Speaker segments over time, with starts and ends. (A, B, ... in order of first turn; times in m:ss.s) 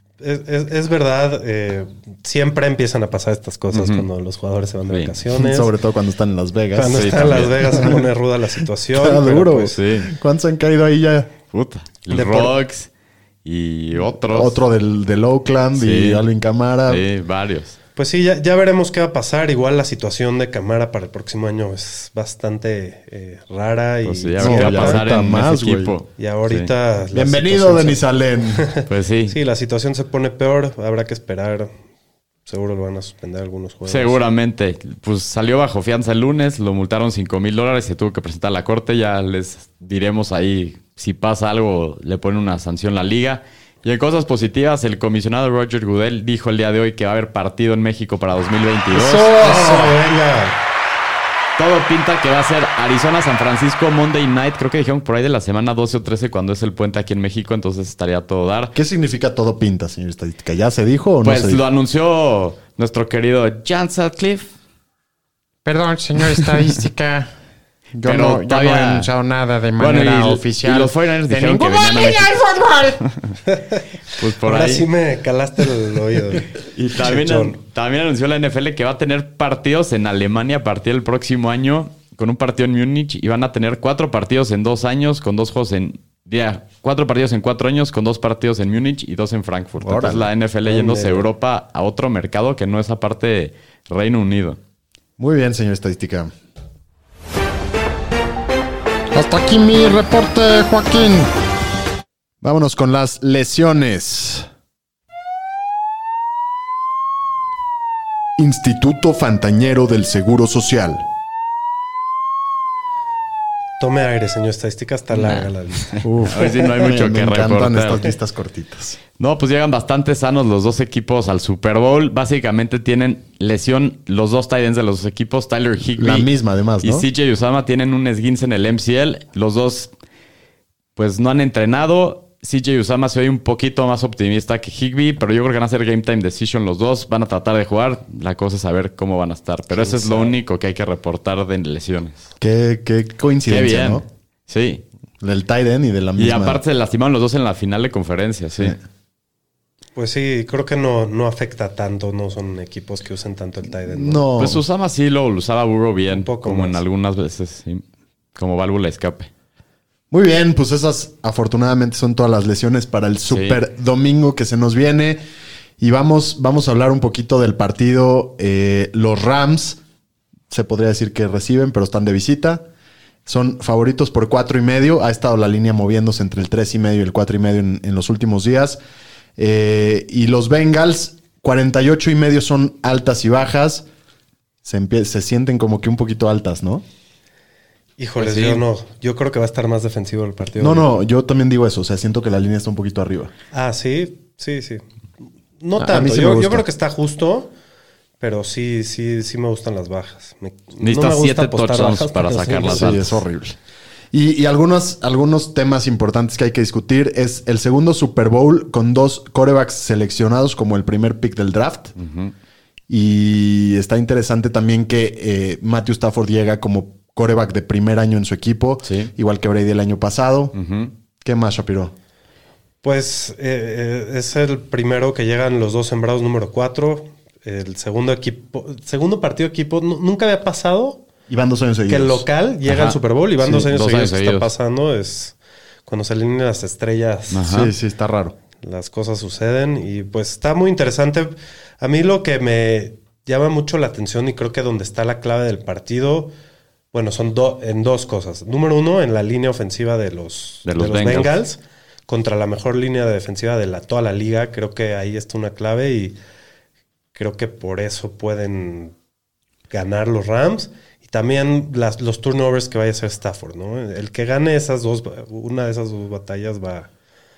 0:00.2-0:05.7 A
0:03.7-0:04.0 B
0:04.9-0:05.1 B
0:05.3-0:08.0 C
0:06.7-0:09.8 A
0:06.8-0:07.8 B
0:08.9-0:11.3 C
0:09.7-0:10.1 B
0:11.5-0:12.9 B
0:12.1-0:12.5 A
0:13.4-0:14.6 B
0:14.3-0:17.0 C
0:15.7-0:16.2 B
0:16.9-0:17.8 B
0:18.0-0:25.0 A
0:24.0-0:26.7 B
0:24.4-0:26.0 C
0:26.2-0:28.0 A
0:27.1-0:28.7 C
0:28.6-0:31.7 A
0:28.9-0:29.4 B
0:32.4-0:34.2 A
0:33.8-0:49.3 B
0:48.9-0:50.0 C
0:49.3-0:50.6 A
0:51.6-0:58.7 B
0:58.7-1:01.6 C
1:01.2-1:04.5 B
1:05.6-1:07.3 D
1:08.0-1:13.0 D
1:08.0-1:09.1 B
1:09.8-1:13.3 B
1:13.4-1:13.8 A
1:14.2-1:14.9 B
1:14.4-1:16.5 A
1:16.7-1:34.6 B
1:17.0-1:17.6 A
1:29.8-1:30.3 C
1:30.6-1:31.3 A
1:35.2-1:36.3 C
1:39.1-1:41.3 C
1:42.4-1:44.5 C
1:48.4-1:51.1 C
1:53.8-1:56.6 A
1:55.1-1:58.1 B
1:56.0-1:59.0 C
1:59.2-2:06.3 B
2:06.0-2:07.1 C
2:06.8-2:09.9 B
2:11.0-2:22.3 B
2:19.7-2:20.4 A
2:22.4-2:24.0 C
2:23.5-2:24.8 B
2:25.2-2:26.6 C
2:26.2-2:28.8 B
2:30.0-2:34.3 A
2:33.8-2:34.6 C
2:34.4-2:37.8 B
2:36.1-2:36.8 A
2:38.4-2:39.3 B
2:40.1-2:45.2 C
2:43.3-2:43.6 B
2:45.8-2:49.8 C
2:50.5-2:52.6 C
2:53.2-2:58.8 C
2:59.4-3:03.8 C
3:04.6-3:06.8 C
3:08.0-3:10.8 A
3:08.2-3:08.6 B
3:10.6-3:13.3 C
3:13.5-3:14.8 A
3:15.6-3:17.5 A
3:15.8-3:16.6 C
3:18.2-3:23.0 A
3:20.8-3:23.2 B
3:22.7-3:23.6 C
3:24.1-3:31.9 C
3:32.0-3:32.3 B
3:32.9-3:40.6 C
3:38.8-3:39.1 B
3:40.5-3:40.9 B
3:41.2-3:41.9 C
3:42.8-3:51.0 A
3:51.3-3:52.2 C
3:51.9-3:57.5 A
3:52.7-3:54.5 B
3:57.3-3:57.7 B
3:57.4-3:58.4 C
3:58.6-4:06.3 A
4:06.9-4:16.2 A
4:10.6-4:11.3 B
4:17.1-4:18.9 A
4:19.7-4:26.9 A